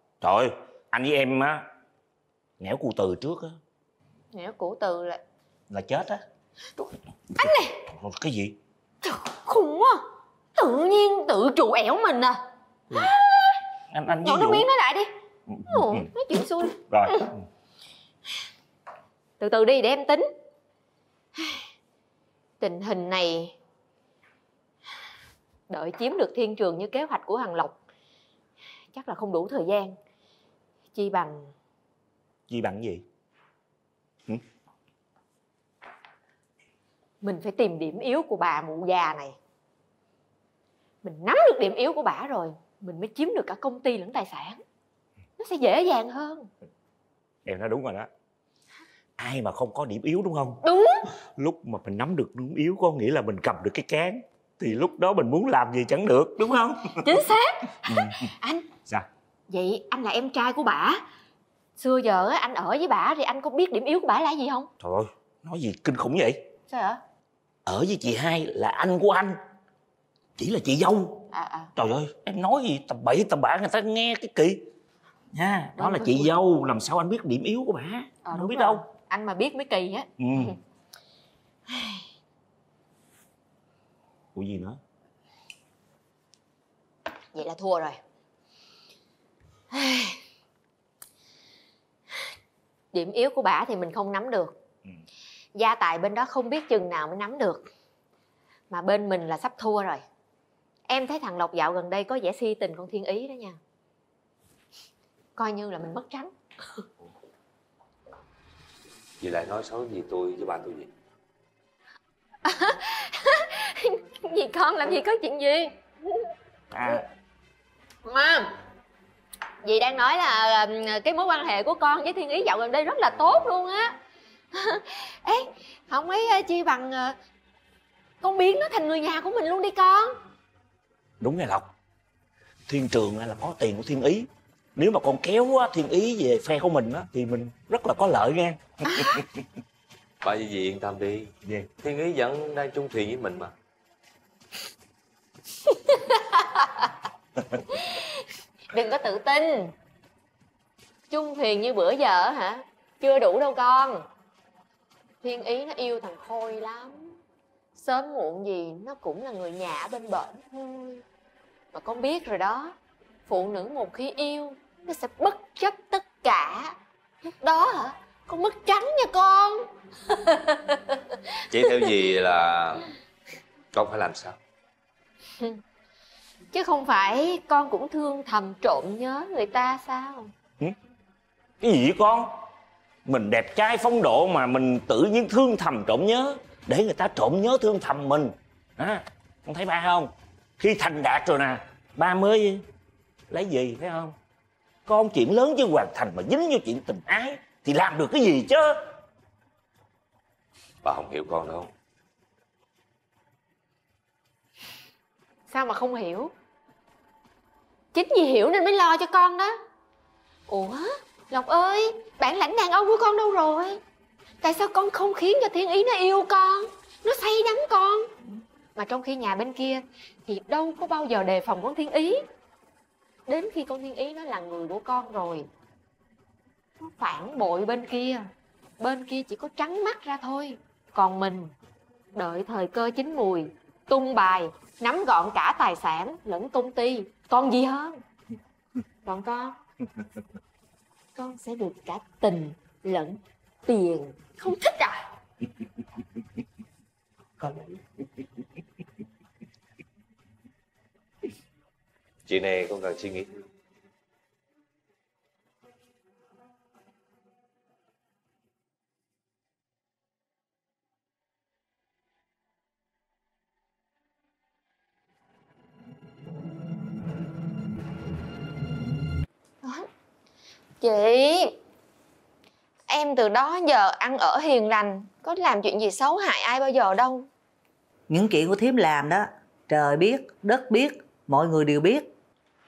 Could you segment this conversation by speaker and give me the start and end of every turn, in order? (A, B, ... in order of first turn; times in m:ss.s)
0:00.2-0:01.6 A
0:02.6-0:03.6 A
0:04.3-0:05.2 B
0:05.7-0:06.2 A
0:07.4-0:07.8 B
0:07.9-0:08.6 A
0:09.0-0:10.0 B
0:10.6-0:12.4 B
0:12.9-0:13.6 B
0:13.9-0:14.7 A
0:14.2-0:15.1 B
0:15.5-0:16.0 A
0:15.7-0:17.3 B
0:16.9-0:17.2 A
0:19.4-0:20.3 B
0:21.4-0:21.6 B
0:22.6-0:23.5 B
0:25.7-0:27.7 B
0:28.9-0:30.0 B
0:30.9-0:31.5 B
0:32.5-0:33.0 A
0:37.2-0:39.4 B
0:41.0-0:44.6 B
0:45.4-0:46.5 B
0:47.4-0:48.1 A
0:49.2-0:50.6 A
0:50.6-0:51.0 B
0:51.4-0:57.0 A
0:57.0-0:58.7 B
0:57.9-0:58.3 A
0:59.5-1:01.0 B
1:01.8-1:04.7 B
1:04.8-1:06.4 A
1:06.7-1:07.0 B
1:07.6-1:09.4 A
1:10.4-1:11.2 A
1:11.3-1:11.7 B
1:11.8-1:14.6 A
1:15.3-1:18.8 A
1:15.8-1:16.3 B
1:18.2-1:20.6 B
1:20.2-1:20.5 A
1:21.7-1:22.0 B
1:24.3-1:24.8 A
1:27.3-1:28.0 B
1:29.7-1:30.2 B
1:32.9-1:34.6 B
1:35.5-1:37.7 B
1:38.7-1:40.0 B
1:40.9-1:43.6 B
1:45.4-1:46.8 B
1:49.2-1:50.9 C
1:52.4-1:56.2 B
1:58.0-1:58.5 B
1:59.6-2:04.0 B
2:04.5-2:07.2 B
2:08.2-2:10.2 B
2:11.2-2:11.7 A
2:12.7-2:18.6 A
2:20.2-2:23.5 C
2:25.9-2:26.7 B
2:27.8-2:28.1 B
2:28.7-2:29.7 B
2:31.1-2:34.0 B
2:35.2-2:37.2 B
2:37.8-2:41.0 B
2:41.7-2:42.8 B
2:43.3-2:51.9 B
2:51.5-2:52.9 C
2:53.7-2:54.4 C
2:56.5-3:00.3 B
3:01.6-3:02.3 A
3:03.0-3:12.6 A
3:13.3-3:14.2 A
3:14.8-3:18.7 A
3:20.8-3:21.7 C
3:25.5-3:26.3 B
3:27.9-3:29.6 B
3:30.5-3:33.8 B
3:34.4-3:38.1 B
3:38.8-3:42.2 B
3:43.3-3:45.5 B
3:46.8-3:51.5 B
3:52.1-3:58.0 B
3:59.0-3:59.6 B
4:01.1-4:05.0 B
4:12.3-4:13.3 C
4:29.6-4:29.9 B
4:30.8-4:31.6 B
4:32.9-4:37.3 B
4:38.1-4:42.1 D